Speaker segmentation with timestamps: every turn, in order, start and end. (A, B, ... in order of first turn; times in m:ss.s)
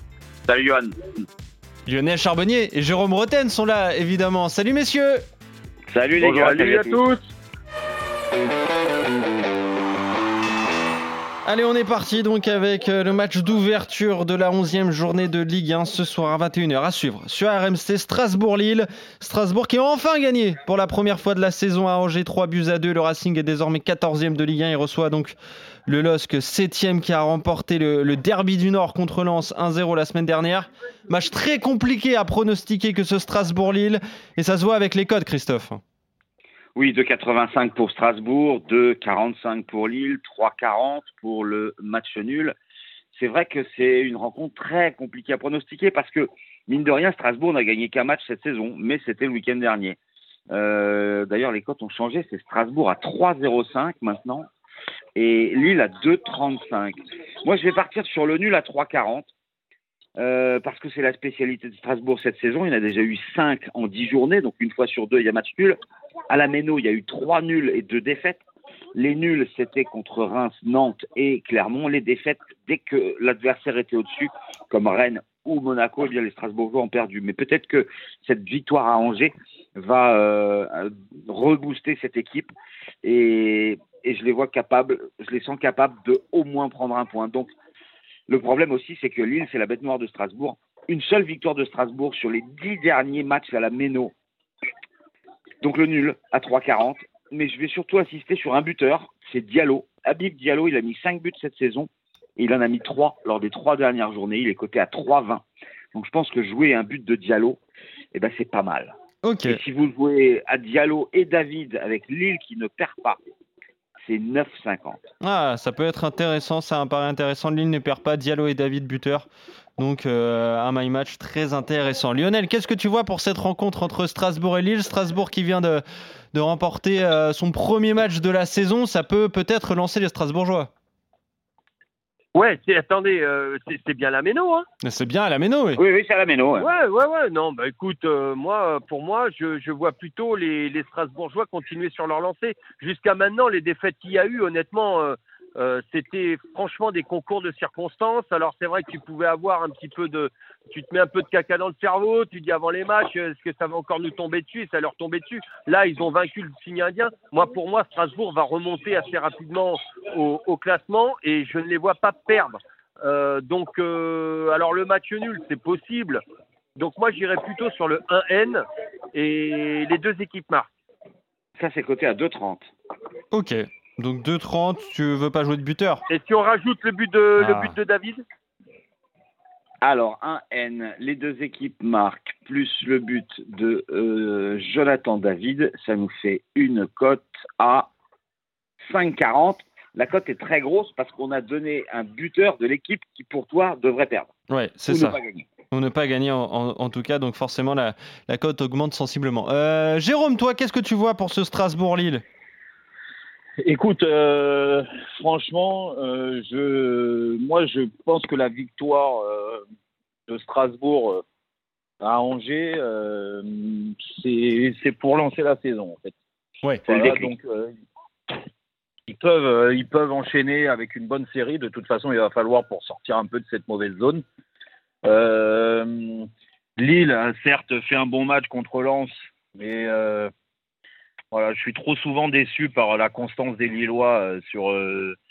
0:00.5-0:00.8 A
0:01.9-0:05.2 B
0:05.9-0:07.0 A
0:06.2-0:07.2 C
0:11.4-0:35.8 B
0:36.8-0:42.6 A
0:43.1-0:50.0 A
0:50.5-0:54.5 A
0:55.2-0:59.3 A
1:00.2-1:05.8 A
1:06.3-1:08.4 A
1:09.0-1:22.5 A
1:23.0-1:27.5 A
1:28.3-1:34.1 A
1:35.6-1:47.6 A
1:48.1-1:48.9 A
1:49.2-1:49.6 B
1:49.5-1:53.2 A
1:54.0-1:55.0 A
1:55.2-2:10.7 B
2:12.3-2:14.7 C
2:14.8-2:15.8 B
2:15.8-2:16.7 A
2:16.6-2:46.2 C
2:46.8-2:50.7 C
2:51.6-2:52.7 A
2:53.3-2:56.0 B
2:56.1-2:58.2 C
2:57.4-2:57.8 B
2:59.8-3:07.9 A
3:08.8-3:14.3 A
3:14.5-3:15.2 B
3:14.9-3:15.5 A
3:15.7-3:22.2 B
3:23.6-3:29.6 D
3:30.3-3:31.2 D
3:32.0-3:36.1 D
3:36.9-3:37.7 D
3:36.9-3:37.3 A
3:39.1-3:44.2 D
3:45.0-3:50.3 D
3:51.3-3:55.2 D